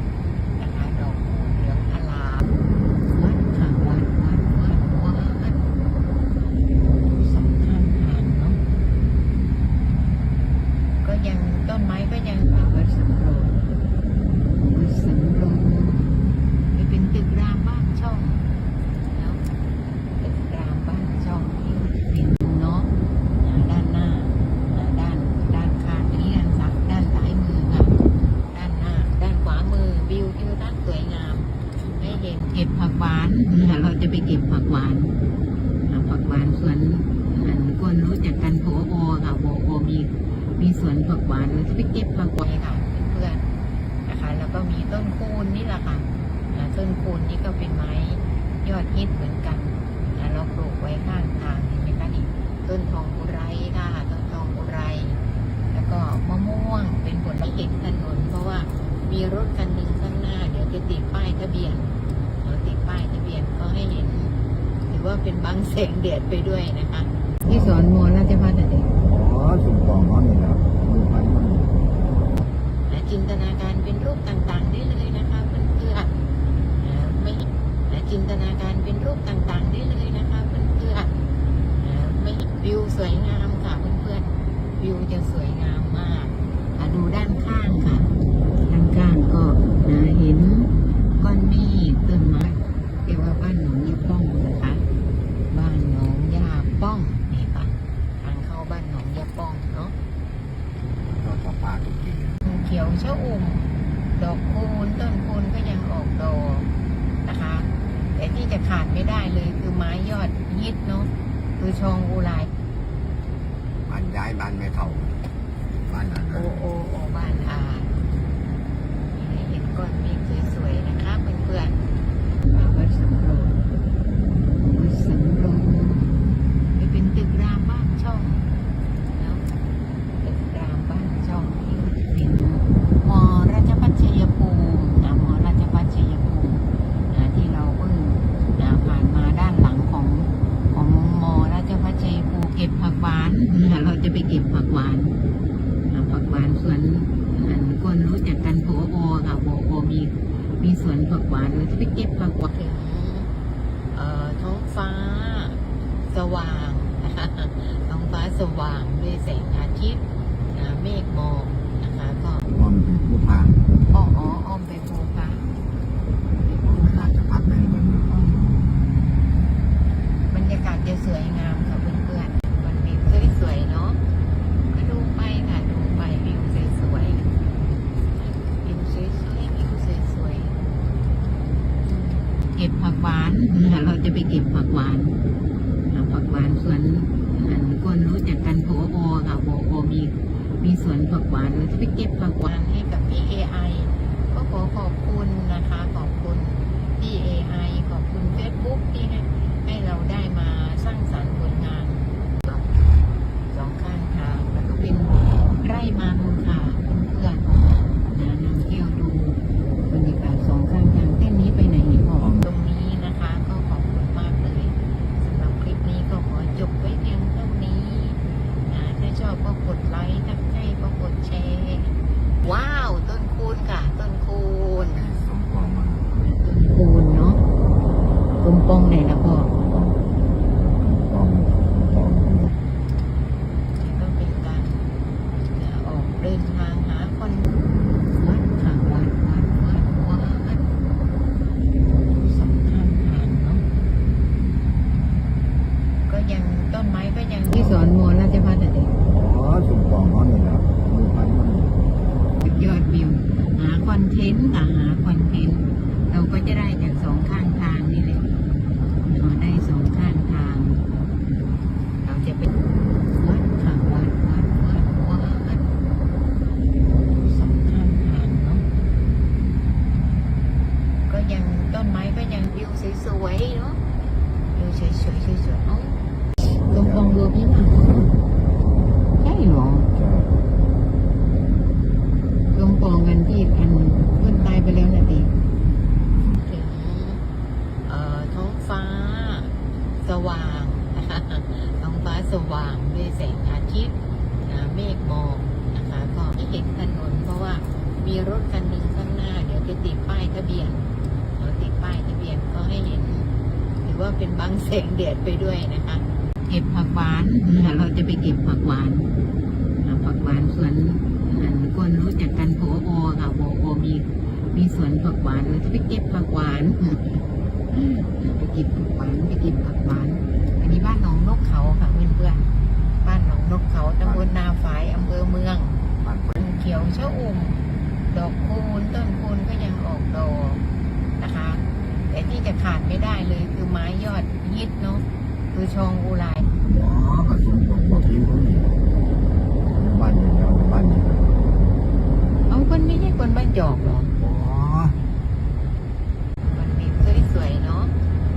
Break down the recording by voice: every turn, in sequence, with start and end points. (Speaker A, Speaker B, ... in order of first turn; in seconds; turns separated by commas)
Speaker A: 0.6-2.5, Speaker A: 3.1-5.7, Speaker A: 7.2-8.6, Speaker A: 11.0-13.6, Speaker A: 14.7-16.1, Speaker A: 16.7-18.4, Speaker A: 19.1-19.4, Speaker A: 20.2-22.9, Speaker A: 23.4-28.0, Speaker A: 28.5-35.1, Speaker A: 35.9-43.4, Speaker A: 44.1-55.2, Speaker A: 55.7-61.9, Speaker A: 62.4-64.3, Speaker A: 64.9-68.9, Speaker B: 69.1-71.8, Speaker A: 72.9-76.1, Speaker A: 76.8-81.1, Speaker A: 81.8-88.1, Speaker A: 88.6-94.8, Speaker A: 95.5-100.0, Speaker B: 101.1-102.4, Speaker A: 102.4-106.7, Speaker A: 107.2-112.5, Speaker B: 113.9-115.2, Speaker B: 115.8-116.6, Speaker A: 116.3-117.9, Speaker A: 119.1-121.8, Speaker A: 122.5-123.5, Speaker A: 124.7-126.1, Speaker A: 126.8-128.4, Speaker A: 129.2-129.5, Speaker A: 130.2-145.1, Speaker A: 145.9-153.3, Speaker A: 153.9-160.0, Speaker A: 160.5-162.4, Speaker B: 162.5-163.6, Speaker A: 163.9-165.5, Speaker A: 166.5-167.1, Speaker B: 166.6-168.4, Speaker A: 168.1-168.5, Speaker A: 170.3-174.0, Speaker A: 174.7-177.2, Speaker A: 178.6-180.6, Speaker A: 181.9-185.2, Speaker A: 185.9-202.7, Speaker A: 203.5-225.1, Speaker B: 212.2-212.4, Speaker B: 224.7-226.3, Speaker A: 226.4-227.4, Speaker A: 228.4-229.5, Speaker B: 229.5-230.1, Speaker B: 230.6-232.6, Speaker A: 233.8-234.8, Speaker A: 235.4-237.5, Speaker A: 238.1-240.7, Speaker A: 242.2-243.6, Speaker A: 246.1-248.9, Speaker B: 249.2-251.8, Speaker A: 252.4-258.3, Speaker A: 259.0-260.8, Speaker A: 262.0-262.5, Speaker A: 263.2-265.6, Speaker A: 267.2-268.6, Speaker A: 271.1-273.8, Speaker A: 274.5-277.8, Speaker B: 276.7-277.2, Speaker B: 277.8-278.1, Speaker A: 279.2-279.9, Speaker B: 279.9-280.4, Speaker A: 282.5-285.3, Speaker A: 286.4-287.2, Speaker A: 287.9-289.5, Speaker A: 290.0-293.9, Speaker A: 294.5-300.8, Speaker A: 301.4-303.3, Speaker A: 303.9-309.1, Speaker A: 309.8-317.2, Speaker A: 317.7-322.4, Speaker A: 323.0-325.8, Speaker B: 324.0-324.3, Speaker B: 326.0-326.5, Speaker A: 326.4-327.6, Speaker A: 328.1-330.6, Speaker A: 331.2-336.5, Speaker B: 336.6-338.8, Speaker B: 339.8-341.3, Speaker A: 342.5-344.1, Speaker B: 344.2-345.0, Speaker A: 346.5-347.9